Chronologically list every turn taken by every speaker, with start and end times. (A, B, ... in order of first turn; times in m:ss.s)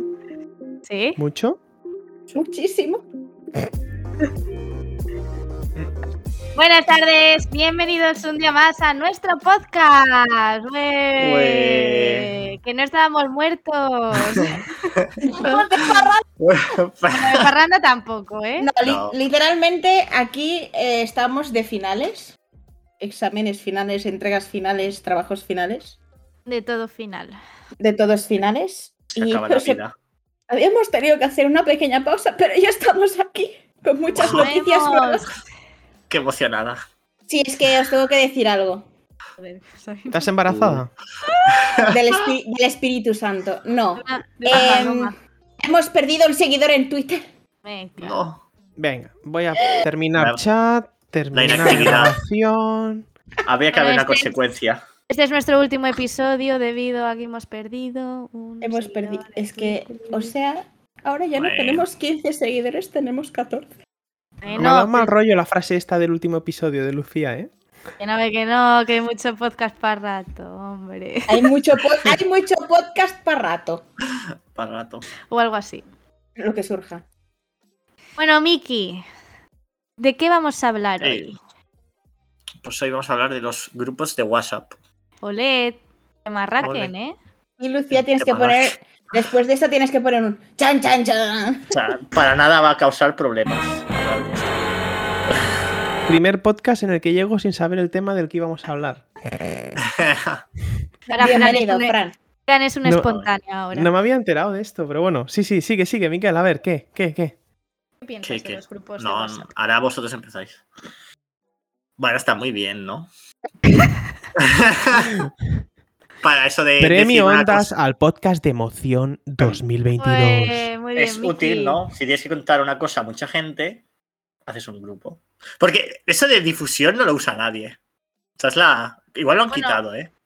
0:00.8-0:01.2 A
0:01.2-0:01.6 B
0:02.3-0:03.0 C
0:06.5-0:14.9 A
0:11.2-0:12.3 D
0:14.1-0:14.6 D
0:15.2-0:16.2 C
0:15.4-0:17.5 D
0:17.1-0:18.7 A
0:18.6-0:22.4 C
0:18.8-0:19.1 D
0:23.0-0:26.0 C
0:26.4-0:27.4 A
0:27.8-0:29.8 C
0:29.2-0:29.9 D
0:30.5-0:35.3 C
0:34.1-0:35.4 A
0:34.2-0:34.5 D
0:36.1-0:36.8 D
0:37.3-0:38.8 C
0:39.4-0:40.3 A
0:40.1-0:40.9 B
0:40.5-0:40.8 D
0:41.2-0:41.8 A
0:41.5-0:42.0 D
0:41.9-0:47.2 C
0:44.0-0:45.2 A
0:47.6-0:48.3 A
0:48.0-0:48.4 D
0:48.8-0:53.0 B
0:50.1-0:50.4 D
0:51.3-0:52.1 D
0:53.4-0:54.8 D
0:53.7-0:54.3 A
0:55.1-1:00.3 A
0:58.6-1:03.7 C
1:01.4-1:01.8 D
1:04.4-1:05.1 A
1:04.6-1:07.5 B
1:08.0-1:11.5 A
1:11.3-1:13.8 C
1:14.5-1:15.1 D
1:15.3-1:15.8 A
1:16.4-1:17.0 C
1:18.2-1:19.0 A
1:20.0-1:21.4 A
1:21.0-1:21.3 D
1:22.6-1:24.7 D
1:25.2-1:27.2 A
1:26.6-1:26.9 D
1:27.6-1:31.7 C
1:27.9-1:28.7 D
1:31.7-1:34.7 D
1:36.1-1:39.7 B
1:39.8-1:40.4 D
1:41.1-1:41.9 A
1:41.1-1:42.1 C
1:42.5-1:43.9 A
1:42.8-1:43.1 B
1:43.7-1:47.3 B
1:48.0-1:49.5 A
1:48.2-1:50.6 D
1:52.0-1:53.1 D
1:54.4-1:55.2 D
1:56.2-1:57.7 D
1:56.8-2:00.7 B
2:00.0-2:01.8 A
2:00.9-2:03.8 D
2:04.5-2:07.8 D
2:08.4-2:10.1 D
2:09.5-2:09.8 A